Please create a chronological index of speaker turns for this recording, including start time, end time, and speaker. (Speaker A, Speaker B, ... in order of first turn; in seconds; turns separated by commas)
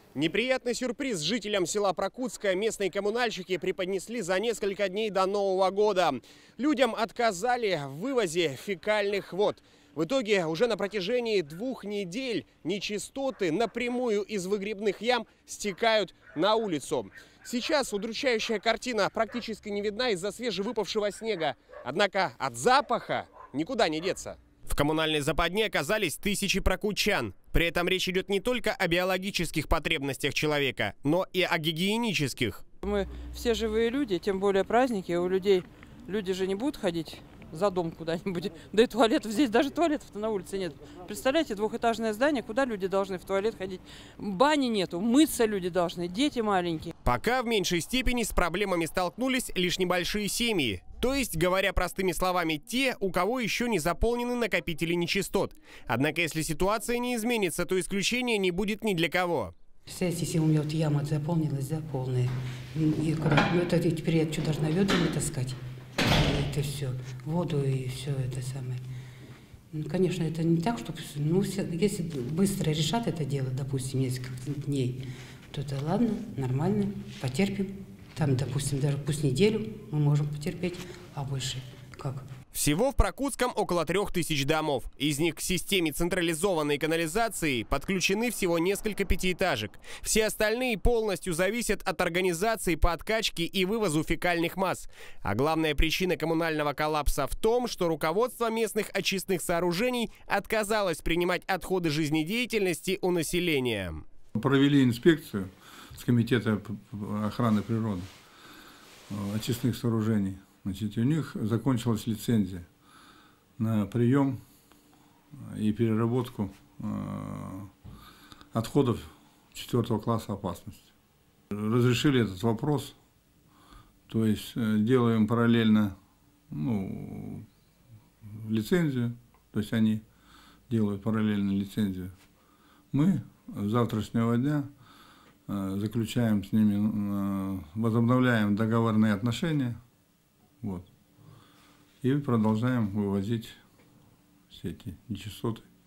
Speaker A: 0.1-32.6, Speaker B: 32.8-46.9, Speaker A: 47.0-59.5, Speaker C: 59.9-68.8, Speaker C: 69.7-82.2, Speaker A: 82.5-104.0, Speaker D: 104.3-108.1, Speaker D: 109.1-112.6, Speaker D: 113.6-114.4, Speaker D: 115.4-117.7, Speaker D: 118.5-120.9, Speaker D: 121.5-122.9, Speaker D: 124.1-125.9, Speaker D: 126.5-127.5, Speaker D: 128.3-130.0, Speaker D: 130.7-132.1, Speaker D: 132.9-134.7, Speaker D: 135.5-139.8, Speaker D: 140.6-140.9, Speaker D: 142.0-143.6, Speaker D: 144.5-145.6